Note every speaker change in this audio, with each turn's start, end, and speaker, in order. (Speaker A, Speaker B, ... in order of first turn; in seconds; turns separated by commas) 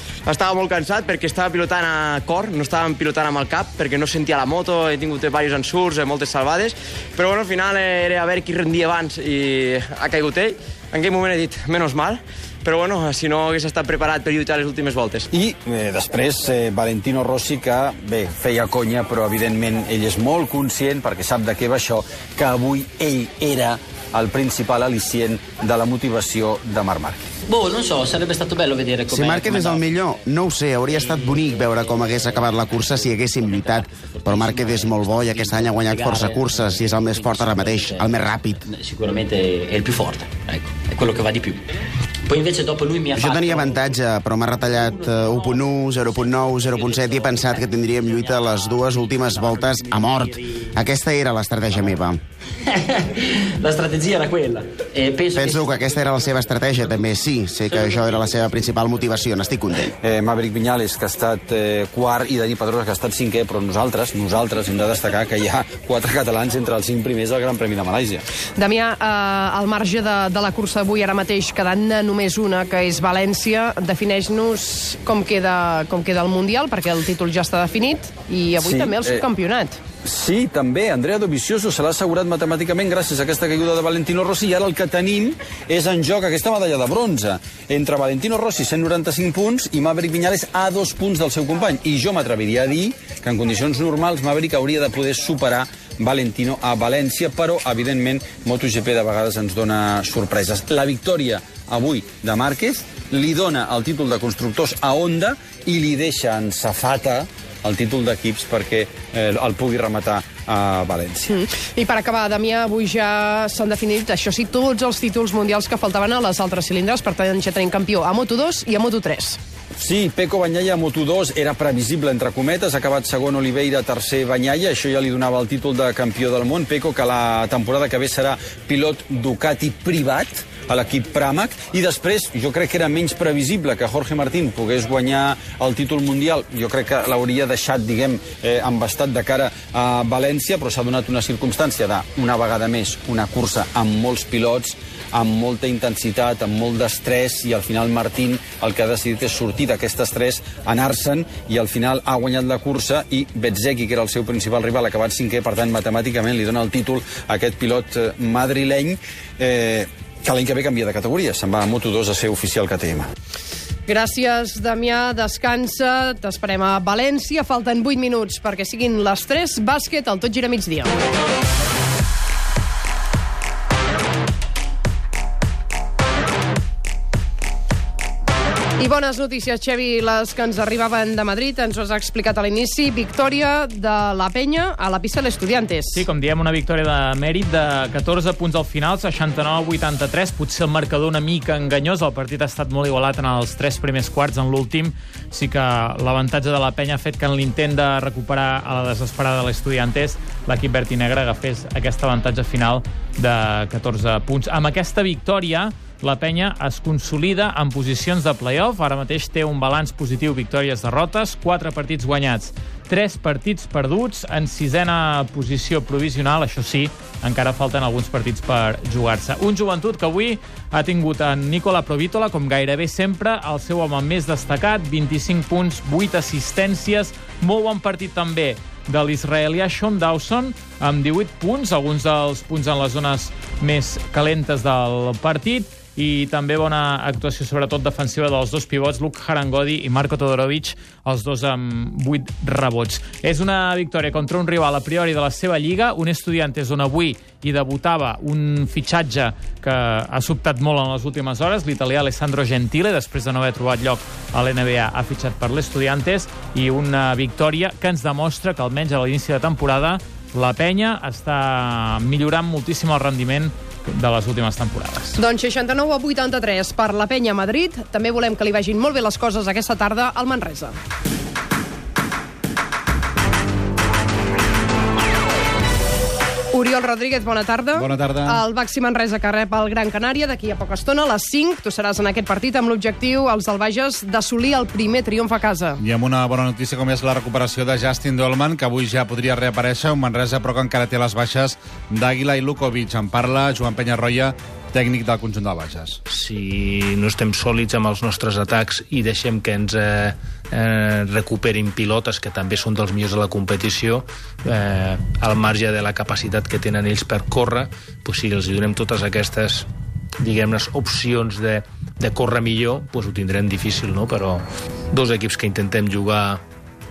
Speaker A: 0.2-15.3, Speaker B: 15.3-27.2, Speaker C: 27.5-29.8, Speaker D: 29.1-38.6, Speaker C: 31.0-31.6, Speaker C: 33.8-41.6, Speaker C: 42.3-43.8, Speaker D: 43.1-52.2, Speaker C: 53.6-56.0, Speaker D: 55.3-59.9, Speaker C: 57.7-58.0, Speaker B: 60.0-68.2, Speaker E: 68.5-79.8, Speaker B: 78.6-79.2, Speaker B: 80.0-111.3, Speaker E: 111.3-119.4, Speaker B: 119.7-163.1, Speaker E: 163.9-170.9, Speaker E: 178.8-186.0, Speaker F: 185.9-265.1, Speaker E: 265.2-270.7, Speaker E: 276.5-285.8, Speaker G: 277.8-278.4, Speaker G: 285.8-296.0, Speaker H: 296.1-309.7, Speaker H: 310.2-316.4